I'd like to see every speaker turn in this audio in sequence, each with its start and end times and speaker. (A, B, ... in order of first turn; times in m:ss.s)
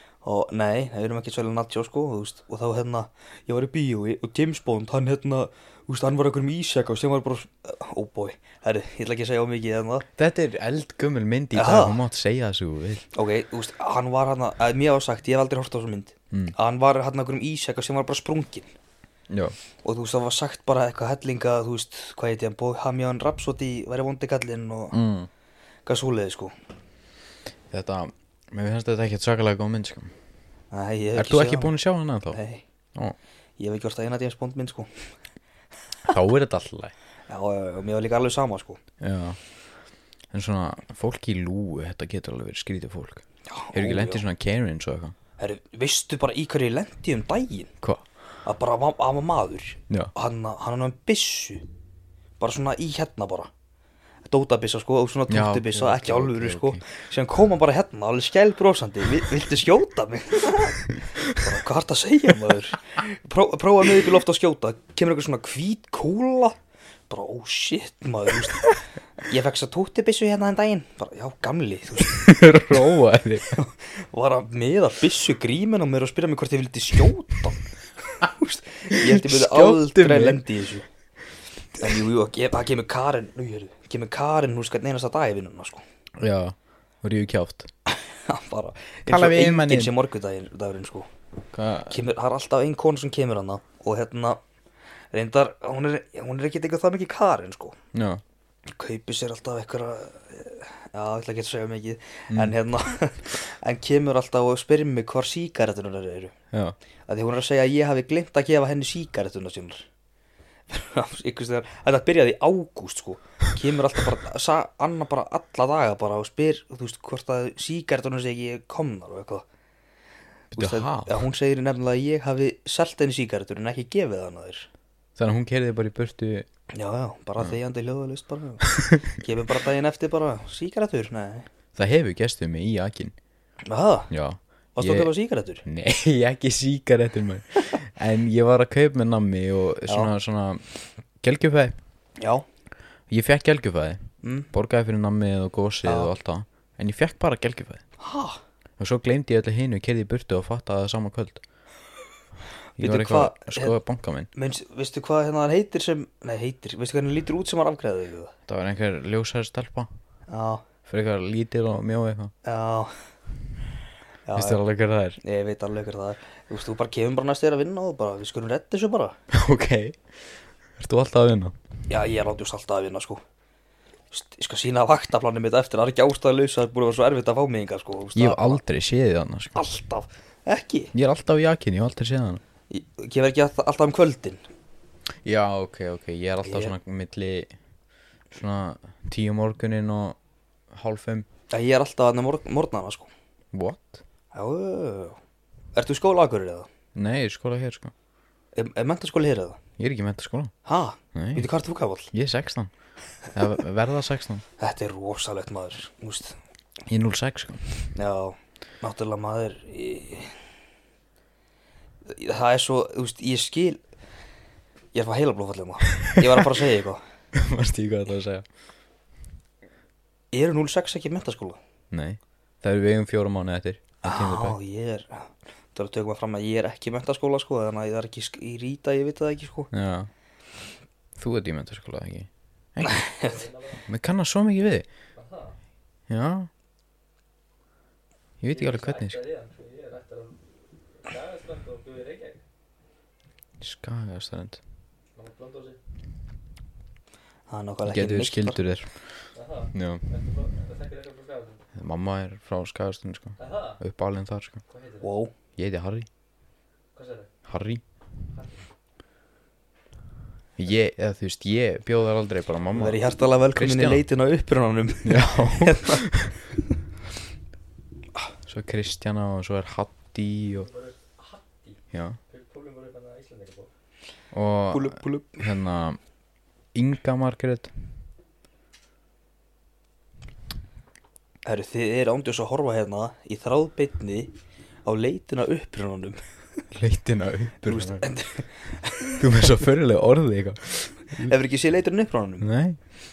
0:00.2-0:10.1 A
0:10.2-0:13.0 B
0:11.5-0:12.0 A
0:13.1-0:18.7 A
0:19.3-0:19.5 B
0:19.8-0:25.0 A
0:24.9-0:25.3 B
0:25.8-0:26.5 A
0:27.7-0:30.1 B
0:30.7-0:31.7 A
0:31.1-0:32.4 B
0:32.3-0:32.6 A
0:33.6-0:35.1 A
0:36.1-0:36.9 B
0:37.3-0:38.8 A
0:39.0-0:39.4 B
0:40.3-0:45.1 B
0:43.5-0:44.2 A
0:45.4-0:47.7 A
0:48.4-0:51.6 A
0:52.4-0:53.5 A
0:54.2-1:06.6 A
0:55.3-0:56.8 B
1:07.1-1:12.7 A
1:12.0-1:13.6 B
1:13.5-1:20.8 A
1:18.9-1:20.4 B
1:21.8-1:25.8 A
1:26.2-1:27.7 B
1:27.9-1:31.1 A
1:29.0-1:29.9 B
1:31.5-1:32.0 B
1:31.9-1:34.4 A
1:35.1-1:37.8 A
1:37.9-1:38.2 B
1:38.7-1:46.3 A
1:47.1-1:49.8 A
1:50.7-1:59.4 A
2:00.5-2:01.2 B
2:00.5-2:04.7 A
2:05.2-2:06.5 B
2:06.7-2:11.5 A
2:11.7-2:13.1 B
2:13.6-2:14.1 A
2:14.1-2:15.1 B
2:14.8-2:15.6 A
2:15.6-2:20.6 B
2:19.9-2:20.1 A
2:21.2-2:21.8 B
2:22.2-2:22.4 A
2:23.1-2:27.8 B
2:24.2-2:24.5 A
2:25.8-2:26.1 A
2:28.0-2:28.4 A
2:28.8-2:31.4 B
2:32.8-2:33.8 A
2:32.8-2:34.3 B
2:34.3-2:38.3 A
2:38.5-2:39.9 B
2:40.3-2:40.6 A
2:40.9-2:42.3 B
2:42.4-2:42.9 A
2:44.2-2:44.6 A
2:44.3-2:45.2 B
2:45.2-2:49.2 A
2:49.3-2:50.0 B
2:50.8-2:51.6 B
2:51.9-2:53.2 A
2:54.1-2:58.6 A
2:58.1-2:59.6 B
2:59.5-3:00.9 A
3:00.9-3:02.4 B
3:02.7-3:04.4 A
3:05.2-3:07.5 B
3:06.4-3:06.7 A
3:08.3-3:10.2 B
3:10.7-3:11.3 B
3:11.5-3:13.1 A
3:13.5-3:14.0 B
3:14.3-3:15.2 A
3:15.7-3:16.7 A
3:16.9-3:17.9 B
3:18.5-3:19.6 A
3:19.8-3:20.5 B
3:20.6-3:22.1 A
3:21.1-3:21.5 B
3:22.1-3:22.7 B
3:23.3-3:24.4 B
3:24.6-3:26.4 A
3:26.9-3:27.7 B
3:27.9-3:30.4 A
3:32.1-3:33.8 A
3:34.9-3:37.0 A
3:36.0-3:36.3 B
3:37.3-3:38.4 B
3:40.3-3:41.6 A
3:41.9-3:44.6 B
3:44.0-3:49.7 A
3:49.7-3:50.1 B
3:51.2-3:53.0 B
3:52.8-3:53.3 A
3:53.2-3:53.8 C
3:53.9-3:54.8 B
3:55.2-3:55.6 C
3:56.1-3:56.5 B
3:58.4-3:59.2 B
3:58.5-4:00.4 C
4:01.0-4:02.4 C
4:03.6-4:04.6 B
4:05.1-4:05.8 C
4:07.5-4:08.6 A
4:07.8-4:09.0 B
4:09.3-4:11.6 C
4:09.7-4:10.0 B
4:11.8-4:14.6 B
4:13.4-4:13.8 C
4:14.7-4:15.1 C
4:15.0-4:15.3 A
4:15.6-4:16.1 B
4:16.9-4:17.3 C
4:17.4-4:17.8 B
4:18.3-4:18.6 C
4:20.6-4:23.0 B
4:22.7-4:26.0 A
4:23.5-4:24.0 B
4:25.0-4:26.3 B
4:28.5-4:30.7 B
4:30.5-4:33.7 C
4:31.9-4:32.2 B
4:34.3-4:36.0 B
4:34.7-4:35.5 A
4:36.7-4:37.7 B
4:41.4-4:44.3 A
4:44.8-4:46.6 A
4:46.7-4:48.1 B
4:47.6-4:49.2 A
4:49.2-4:51.3 B
4:51.2-4:52.5 A
4:52.4-4:52.8 B